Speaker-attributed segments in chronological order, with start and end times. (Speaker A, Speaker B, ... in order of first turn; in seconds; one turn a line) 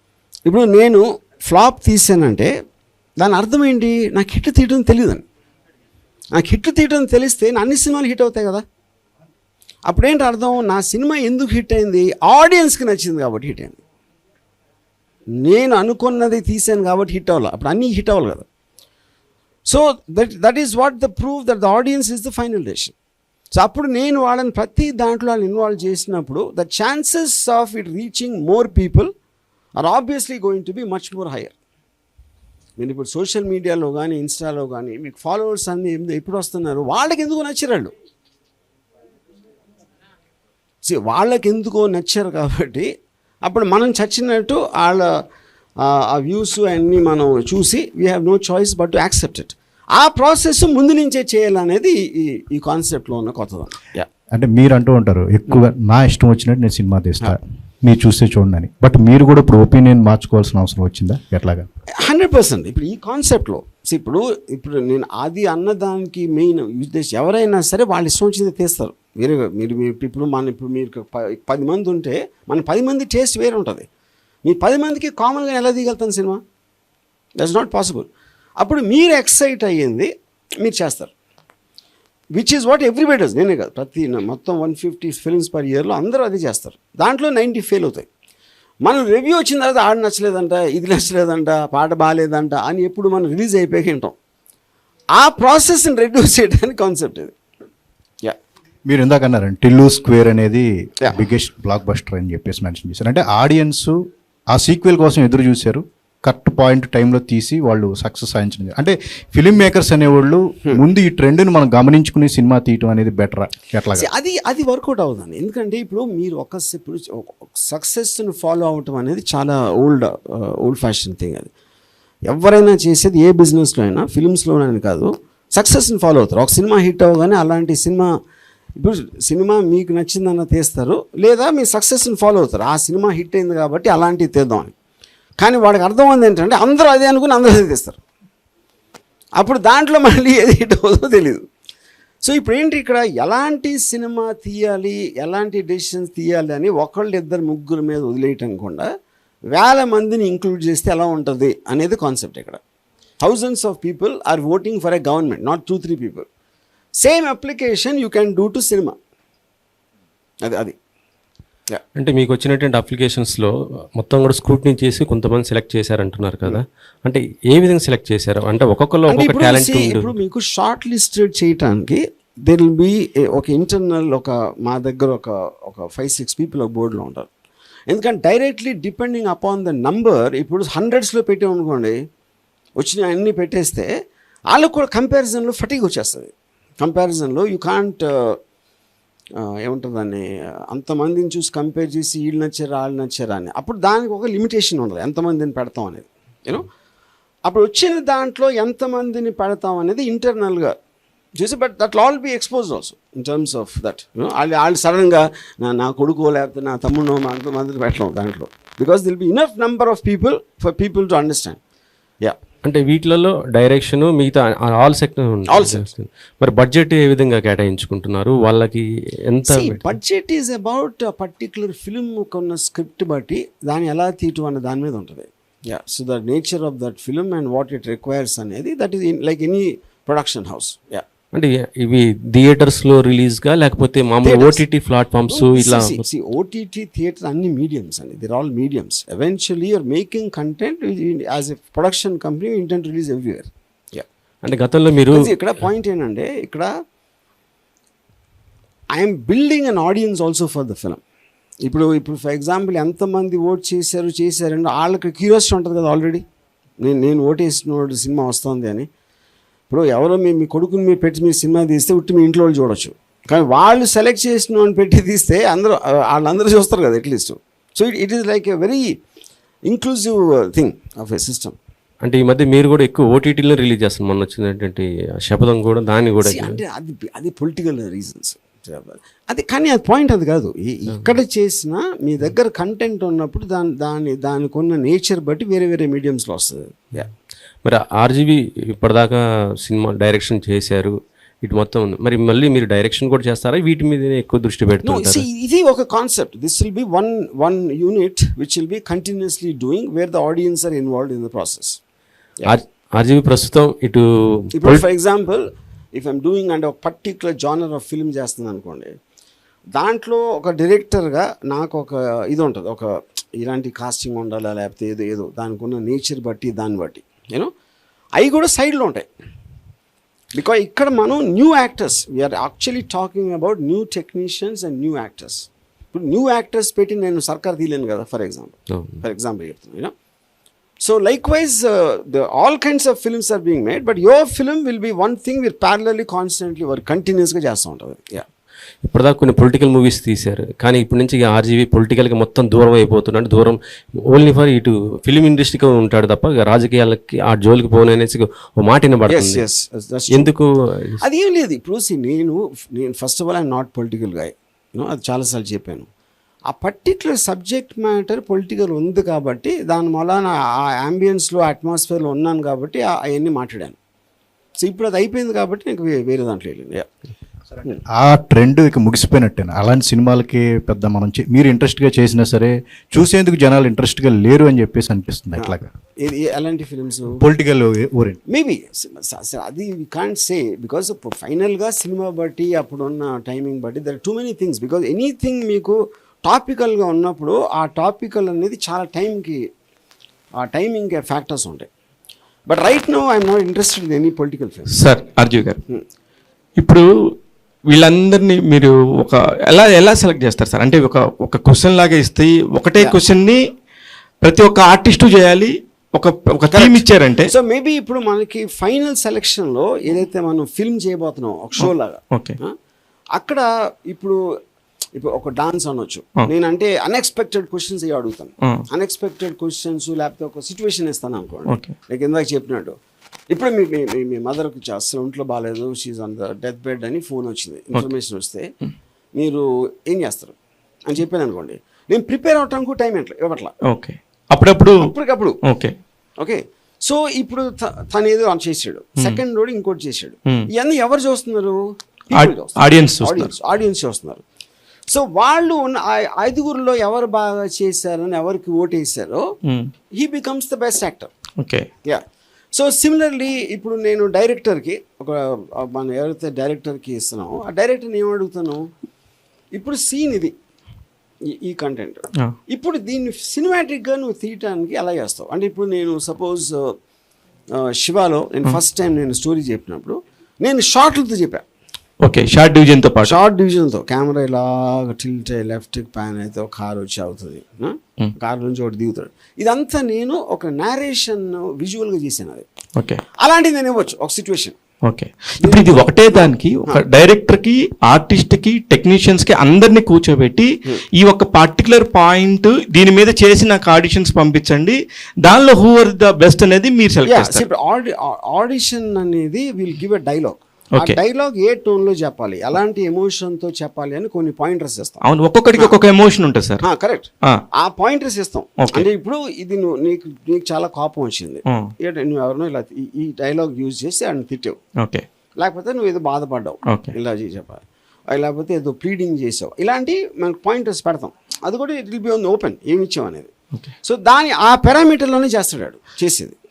Speaker A: 0.4-2.5
Speaker A: 3.2-5.2
Speaker A: 6.3-8.6
Speaker A: 9.9-13.8
Speaker A: 15.3-18.5
Speaker A: 19.6-22.9
Speaker A: 23.5-29.1
Speaker A: 29.8-31.6
Speaker A: 32.8-37.9
Speaker A: 40.8-42.9
Speaker A: 43.4-45.2
Speaker A: 45.8-54.1
Speaker B: 54.3-61.7
Speaker A: 62.0-73.9
Speaker A: 74.4-76.4
Speaker A: 77.4-81.1
Speaker A: 82.3-88.1
Speaker A: 88.8-94.2
Speaker A: 95.1-97.3
Speaker B: 98.9-114.1
Speaker A: 113.9-121.5
Speaker A: 122.3-128.1
Speaker A: 128.8-134.7
Speaker A: 135.4-138.0
Speaker A: 139.4-141.4
Speaker A: 142.2-148.9
Speaker A: 149.5-152.6
Speaker A: 153.2-156.3
Speaker A: 157.0-159.0
Speaker A: 160.4-160.8
Speaker C: 161.9-170.1
Speaker A: 169.1-177.3
Speaker A: 177.9-182.0
Speaker A: 182.8-183.9
Speaker A: 184.5-188.4
Speaker A: 189.3-196.7
Speaker A: 197.4-200.8
Speaker A: 201.4-211.6
Speaker C: 212.6-219.9
Speaker A: 215.5-215.9
Speaker A: 219.4-231.0
Speaker C: 231.3-236.0
Speaker A: 234.2-234.6
Speaker A: 235.3-244.1
Speaker C: 244.4-245.3
Speaker A: 245.1-246.7
Speaker A: 248.9-251.0
Speaker A: 251.6-256.2
Speaker A: 256.8-258.9
Speaker A: 259.7-269.0
Speaker A: 269.6-271.6
Speaker C: 272.0-276.6
Speaker A: 276.2-287.1
Speaker C: 287.6-295.2
Speaker A: 294.8-301.8
Speaker C: 302.4-304.8
Speaker A: 304.5-308.9
Speaker A: 309.7-317.5
Speaker A: 318.2-319.1
Speaker A: 320.3-329.9
Speaker A: 330.8-338.2
Speaker C: 338.8-349.4
Speaker A: 349.1-350.3
Speaker C: 350.1-351.0
Speaker A: 351.0-355.9
Speaker A: 356.5-363.8
Speaker A: 364.6-366.9
Speaker B: 367.9-375.7
Speaker A: 375.4-377.2
Speaker B: 377.2-378.2
Speaker A: 378.3-389.4
Speaker A: 390.4-391.7
Speaker A: 392.5-394.7
Speaker D: 394.8-395.6
Speaker D: 396.6-396.8
Speaker D: 397.7-403.4
Speaker D: 404.2-407.3
Speaker A: 406.5-412.6
Speaker D: 411.6-412.4
Speaker A: 413.1-414.2
Speaker A: 414.9-422.8
Speaker D: 421.5-421.7
Speaker A: 423.3-428.5
Speaker A: 429.1-430.4
Speaker A: 430.9-433.5
Speaker D: 433.7-434.9
Speaker A: 434.8-435.4
Speaker D: 435.4-435.8
Speaker A: 436.2-444.2
Speaker D: 442.1-443.3
Speaker A: 444.9-449.4
Speaker D: 449.4-449.7
Speaker A: 449.9-451.1
Speaker D: 451.4-451.7
Speaker A: 451.8-458.7
Speaker A: 459.5-460.3
Speaker A: 461.2-466.8
Speaker A: 467.5-471.4
Speaker D: 472.0-473.2
Speaker A: 473.0-482.5
Speaker D: 482.8-483.0
Speaker A: 483.2-484.6
Speaker D: 484.9-497.4
Speaker A: 485.4-486.8
Speaker A: 497.1-505.0
Speaker D: 505.0-506.6
Speaker A: 506.6-514.6
Speaker D: 508.6-508.9
Speaker D: 511.5-511.7
Speaker D: 514.8-515.0
Speaker A: 515.4-523.3
Speaker D: 516.7-516.9
Speaker A: 523.8-526.4